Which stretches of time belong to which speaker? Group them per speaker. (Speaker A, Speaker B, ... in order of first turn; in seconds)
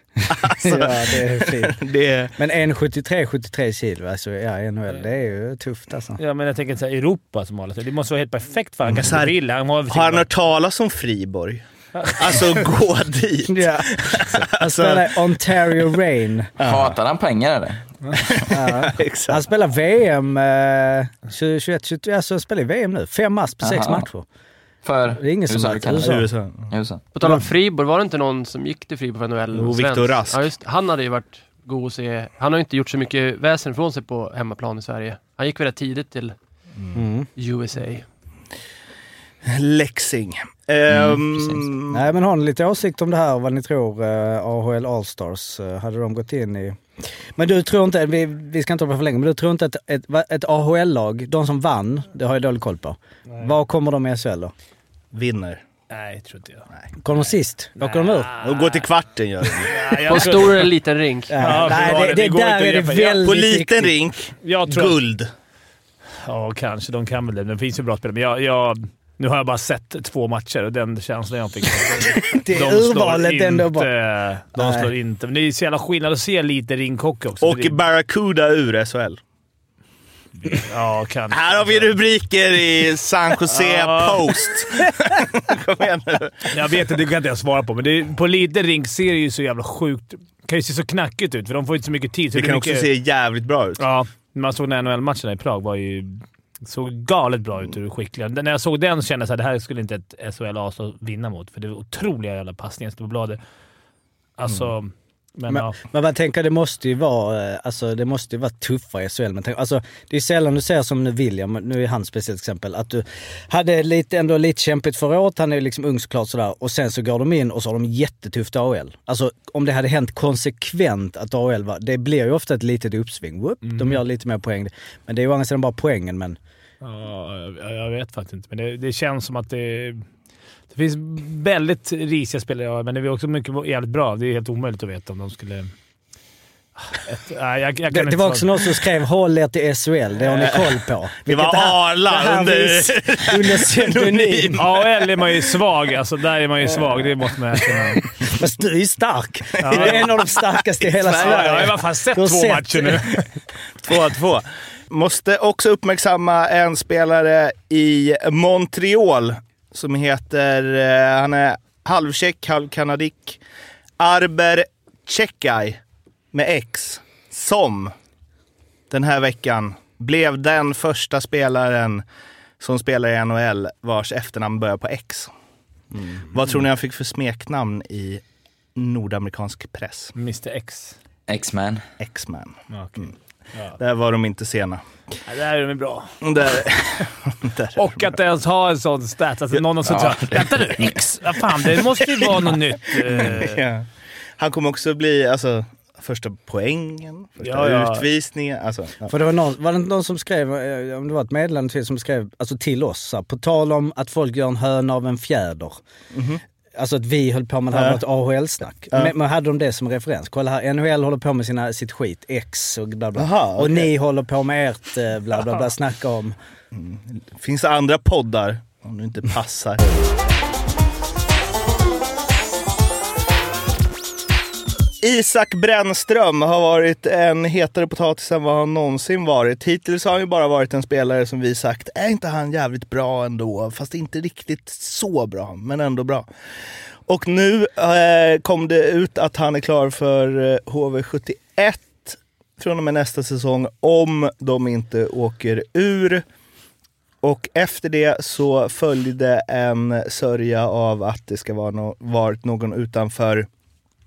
Speaker A: 0.2-2.4, 8.8-9.3, 9.9-15.9, 16.6-17.0, 18.2-19.4, 26.0-26.7, 29.5-30.5, 39.5-42.0, 55.1-55.6, 58.3-59.9, 63.2-65.3, 77.4-79.2, 81.3-86.5, 92.3-93.8, 140.2-145.1, 149.6-150.4, 151.0-151.7, 153.8-163.4, 164.0-165.8, 166.3-167.9, 168.9-172.0, 172.6-175.3, 176.2-178.2, 178.8-180.1, 182.0-183.1, 183.8-184.8, 186.2-188.1, 193.0-199.1, 206.1-206.4, 207.7-208.0, 213.2-213.9, 216.7-220.0, 225.0-236.3, 237.1-246.2, 247.2-253.5
Speaker B: 0.6-1.8, 2.4-6.2, 13.5-16.5, 18.5-24.2, 25.1-26.3, 36.9-37.3, 41.9-54.5, 57.0-58.3, 61.3-63.9, 72.0-73.9, 74.6-74.9, 105.5-126.4, 137.9-144.6, 148.2-153.2, 199.1-205.8, 206.8-216.3
Speaker C: 6.2-10.3, 12.0-12.3, 55.9-56.7, 57.8-58.9, 59.6-60.7, 61.4-63.2, 64.4-65.0, 66.2-77.8, 80.4-81.9, 83.5-84.5, 86.5-92.9, 93.8-103.4, 104.4-105.8, 123.6-124.0, 126.8-130.1, 130.7-135.7, 136.8-138.5, 144.6-148.0, 149.6-150.2, 151.0-153.3, 180.2-181.0, 182.7-183.8, 185.3-186.2, 187.8-193.6, 197.4-198.1
Speaker D: 16.6-18.5, 23.6-24.1, 24.8-27.0, 40.9-41.6, 181.3-181.8, 189.9-191.0
Speaker E: 27.1-36.3, 37.4-38.0, 60.0-61.5